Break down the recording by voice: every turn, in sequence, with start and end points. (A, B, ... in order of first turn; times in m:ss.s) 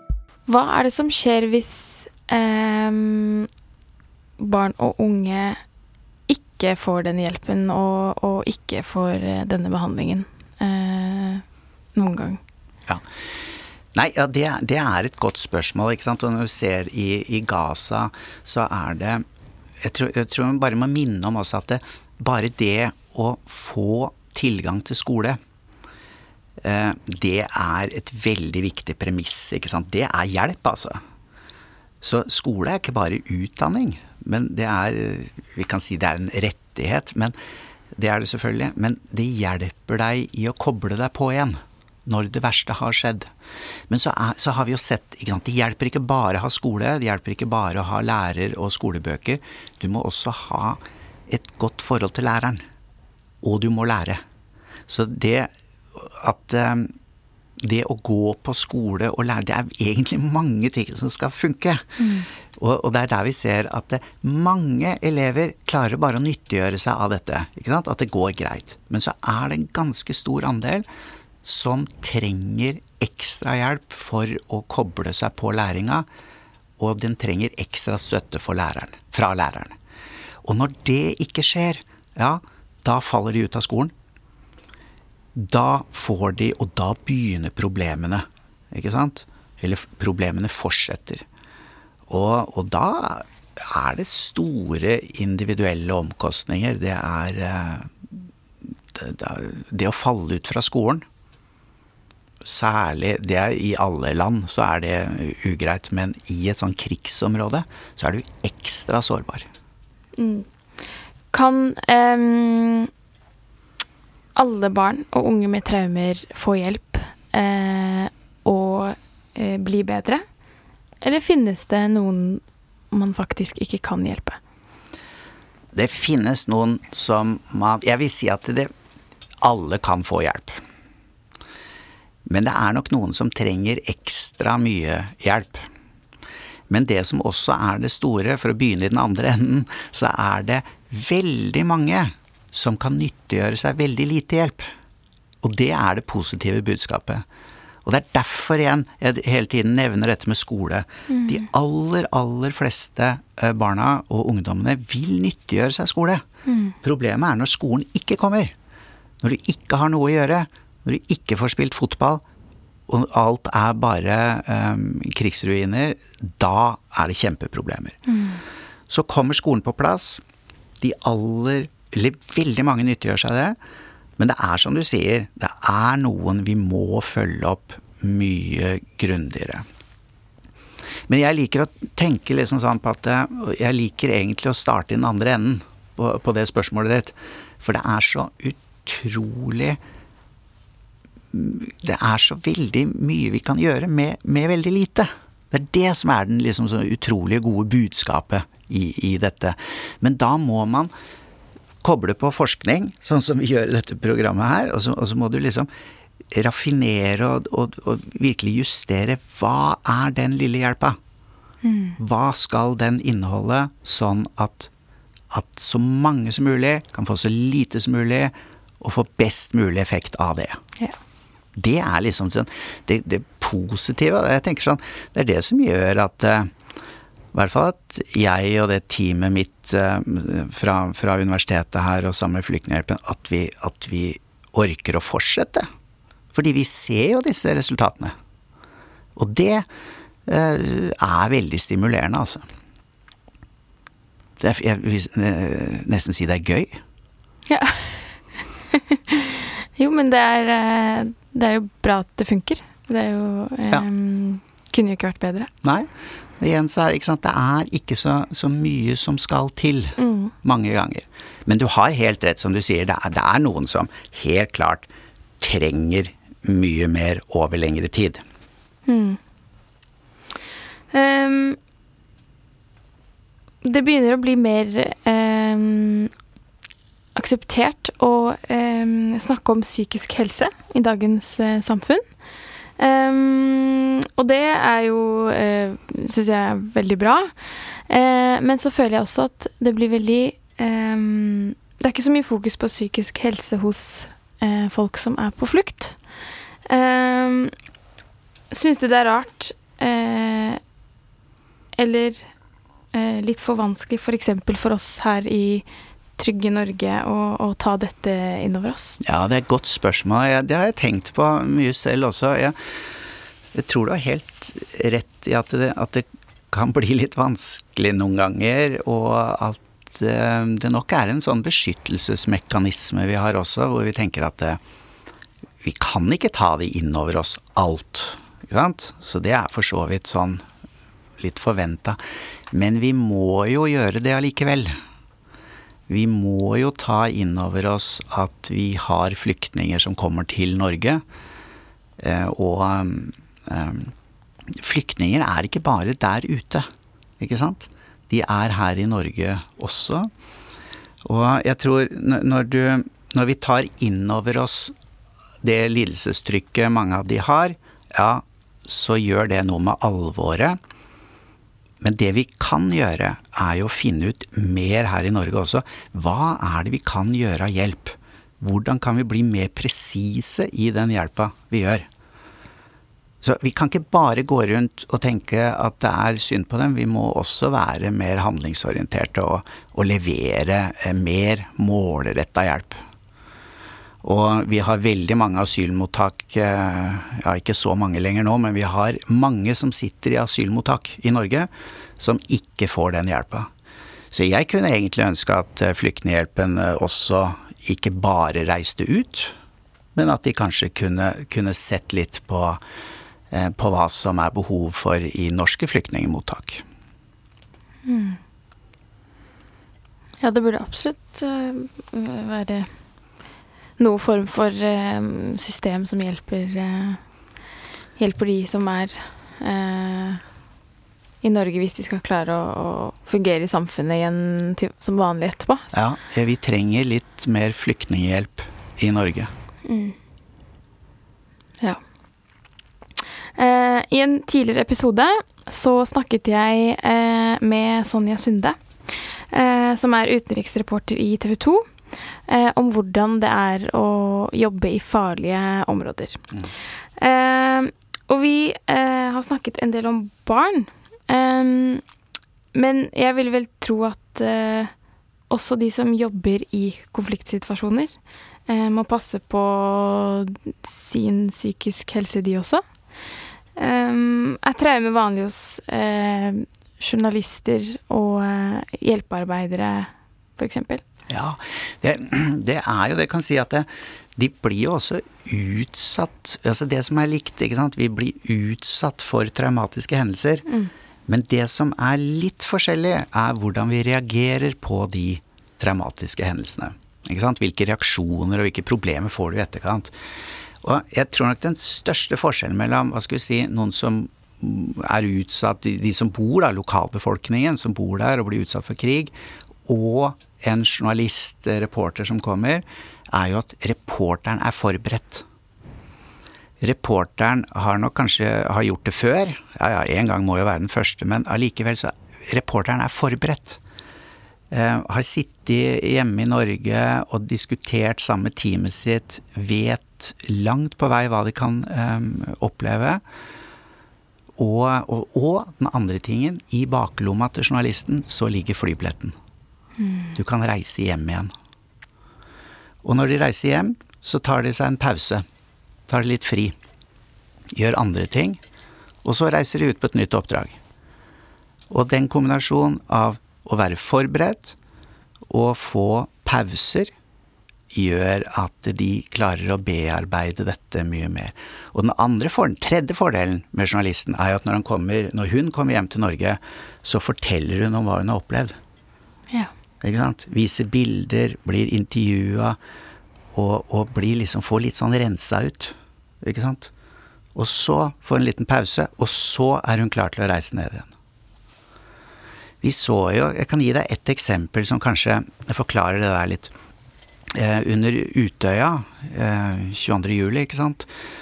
0:00.5-0:03.5 A
0:04.4-0:05.6 A
0:06.3-0:11.4 A
0:12.0-0:12.4 A
0:14.0-0:19.2 B
0:19.8-0:25.4 B
0:26.6-0:31.0 B
0:32.0-0:37.3 B
0:37.9-0:43.3 B
0:43.9-0:52.6 B
0:53.4-0:54.2 B
0:54.9-0:56.9 B
0:57.6-1:10.8 B
1:02.0-1:02.3 A
1:11.4-1:16.1 B
1:16.8-1:19.8 B
1:20.4-1:23.9 B
1:25.4-1:31.2 B
1:32.1-1:38.1 B
1:38.9-1:41.0 B
1:42.4-1:49.5 B
1:50.2-1:50.5 A
1:51.3-1:52.9 A
1:54.4-2:00.2 A
2:01.0-2:04.4 A
2:05.7-2:08.7 B
2:09.4-2:10.6 B
2:12.3-2:15.7 B
2:16.7-2:24.7 B
2:25.4-2:27.2 B
2:27.8-2:36.2 B
2:31.1-2:31.4 A
2:36.5-2:36.8 A
2:36.8-2:38.5 B
2:39.2-2:42.2 B
2:42.9-2:48.0 B
2:48.1-2:48.4 A
2:48.9-2:50.2 B
2:50.8-2:53.6 B
2:54.2-2:59.6 B
3:01.1-3:09.8 B
3:11.3-3:20.9 B
3:21.8-3:25.7 B
3:26.3-3:31.0 B
3:31.6-3:32.0 A
3:32.0-3:34.7 B
3:35.3-3:40.6 B
3:41.6-3:46.5 B
3:47.3-3:55.7 B
3:56.3-3:58.1 B
3:59.2-3:59.6 B
4:00.3-4:02.4 B
4:04.4-4:06.8 B
4:07.5-4:08.1 A
4:08.7-4:15.5 A
4:15.6-4:28.2 B
4:20.0-4:20.3 A
4:28.9-4:29.2 A
4:30.9-4:31.6 A
4:33.6-4:36.1 A
4:37.2-4:42.0 A
4:42.8-4:56.0 A
4:56.6-4:57.5 A
4:58.5-5:00.6 A
5:01.8-5:02.3 A
5:02.9-5:05.6 A
5:06.2-5:09.0 A
5:09.0-5:12.6 B
5:13.5-5:24.6 B
5:25.6-5:30.4 B
5:31.2-5:32.0 B
5:32.5-5:34.8 B
5:35.9-5:41.0 B
5:42.0-5:43.9 B
5:44.5-5:46.7 B
5:47.2-5:50.1 B
5:51.0-5:54.7 B
5:55.4-6:00.6 B
6:01.8-6:11.9 B
6:13.2-6:22.8 B
6:24.0-6:33.5 B
6:34.1-6:39.3 B
6:39.9-6:42.6 B
6:43.3-6:46.6 B
6:47.8-6:48.2 A
6:50.2-6:52.8 A
6:53.8-6:57.0 A
6:58.0-7:00.2 A
7:01.2-7:05.7 A
7:05.7-7:09.3 B
7:09.6-7:10.0 A
7:13.4-7:26.2 A
7:27.0-7:31.8 A
7:32.5-7:34.7 A
7:35.3-7:42.6 A
7:43.6-7:50.8 A
7:51.1-8:00.5 B
8:01.1-8:09.9 B
8:10.6-8:19.1 B
8:19.6-8:25.2 B
8:26.6-8:33.6 B
8:34.5-8:43.0 B
8:44.4-8:49.2 B
8:49.8-8:50.2 A
8:50.2-8:51.3 B
8:52.8-8:55.2 B
8:55.9-8:56.6 B
8:57.5-8:58.4 B
8:59.0-9:00.6 B
9:01.7-9:04.6 B
9:05.3-9:06.9 B
9:07.7-9:18.6 B
9:19.8-9:22.6 B
9:23.3-9:26.7 B
9:27.4-9:30.9 B
9:32.6-9:36.5 B
9:37.3-9:40.9 B